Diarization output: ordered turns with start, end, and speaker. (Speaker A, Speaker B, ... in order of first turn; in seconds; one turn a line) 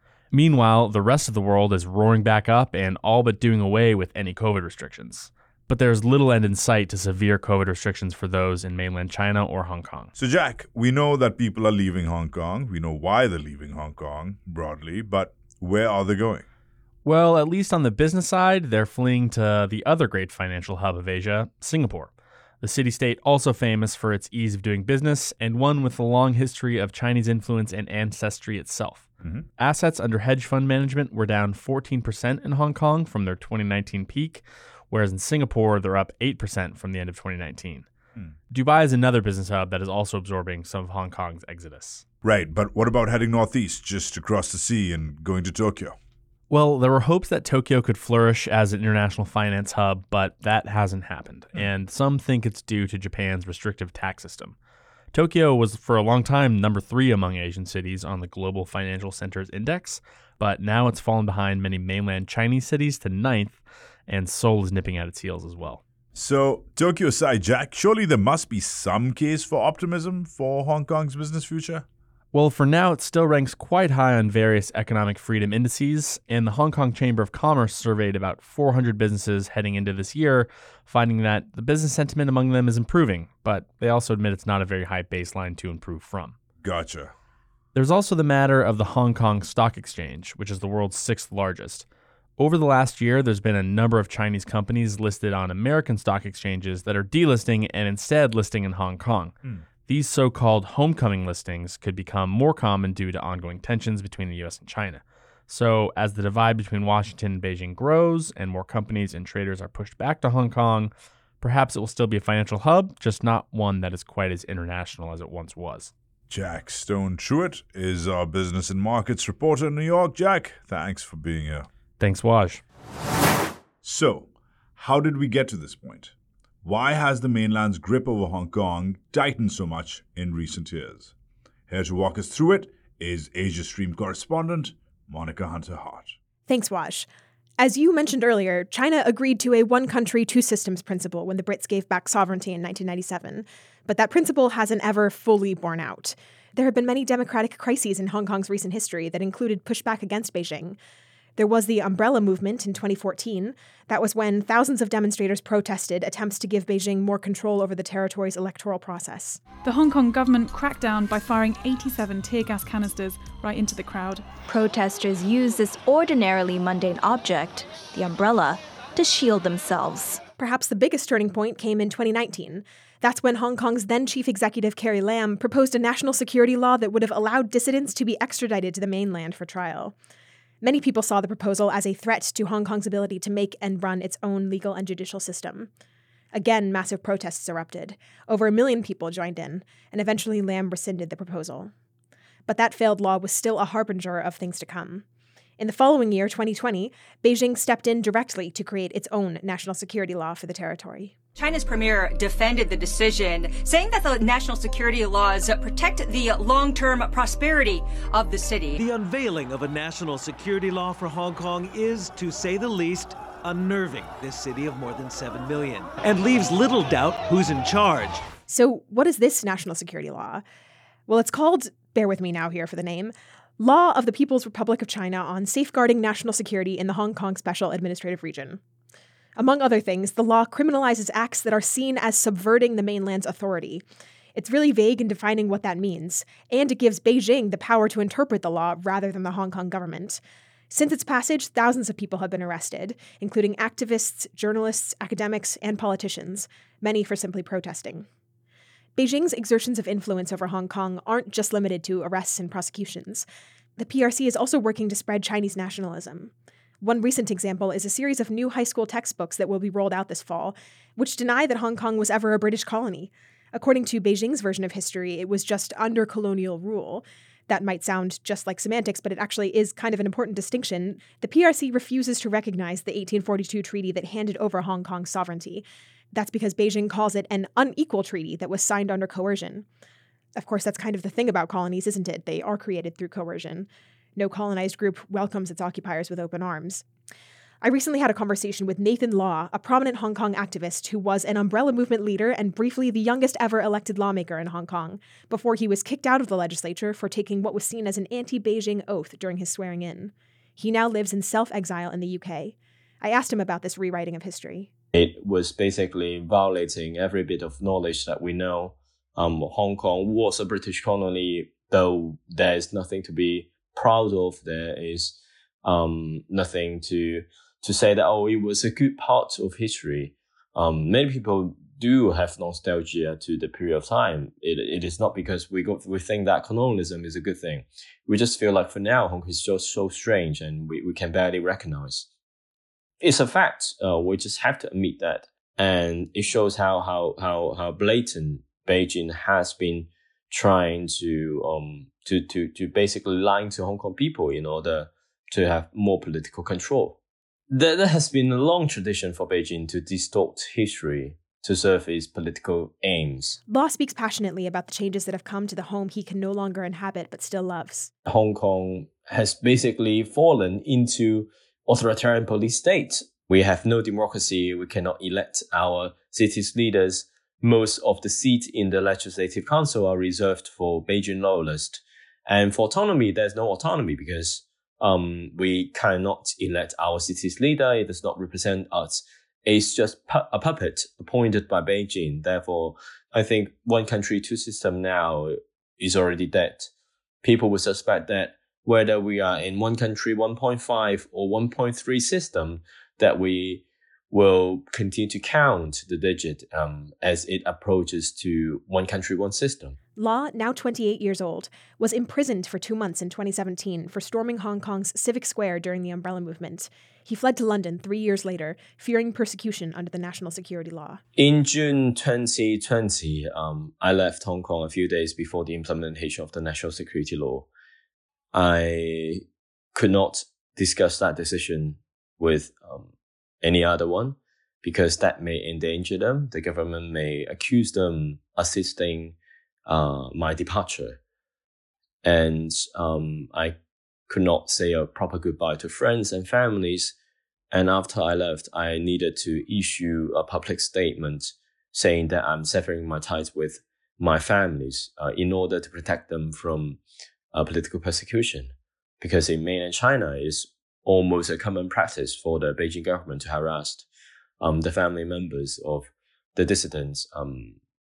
Speaker A: 0.3-10.1
Speaker B: 10.2-16.4
Speaker A: 17.1-37.9
Speaker A: 38.5-42.0
Speaker B: 42.2-46.0
Speaker A: 46.5-54.5
Speaker A: 55.1-65.8
Speaker B: 66.1-71.9
Speaker A: 72.3-86.4
Speaker B: 86.6-87.1
Speaker A: 87.8-91.9
Speaker A: 92.4-115.9
Speaker B: 116.3-121.7
Speaker A: 122.0-122.6
Speaker B: 123.8-131.1
Speaker B: 131.7-136.2
Speaker C: 136.5-137.1
Speaker C: 137.6-150.8
Speaker C: 151.4-159.4
Speaker D: 159.6-164.4
Speaker E: 164.4-170.2
Speaker C: 170.4-180.0
Speaker C: 180.6-185.7
Speaker C: 186.3-191.7
Speaker C: 192.5-195.1
Speaker C: 195.6-201.2
Speaker F: 201.4-208.8
Speaker G: 208.8-218.2
Speaker C: 218.5-220.4
Speaker C: 221.1-228.6
Speaker C: 229.4-233.8
Speaker C: 234.3-248.1
Speaker C: 249.0-253.3
Speaker C: 253.8-279.7
Speaker C: 280.4-286.9
Speaker C: 287.6-304.7
Speaker H: 304.9-332.1
Speaker H: 333.0-347.0
Speaker H: 347.5-353.4
Speaker C: 353.5-357.9
Speaker H: 358.1-386.7
Speaker H: 387.2-399.8
Speaker C: 400.0-411.0
Speaker H: 411.2-417.5
Speaker H: 418.3-419.2
Speaker H: 419.8-422.9
Speaker H: 423.4-429.2
Speaker H: 429.7-431.0
Speaker H: 432.0-433.6
Speaker H: 434.1-436.9
Speaker H: 437.5-446.8
Speaker H: 447.3-453.9
Speaker H: 454.4-457.6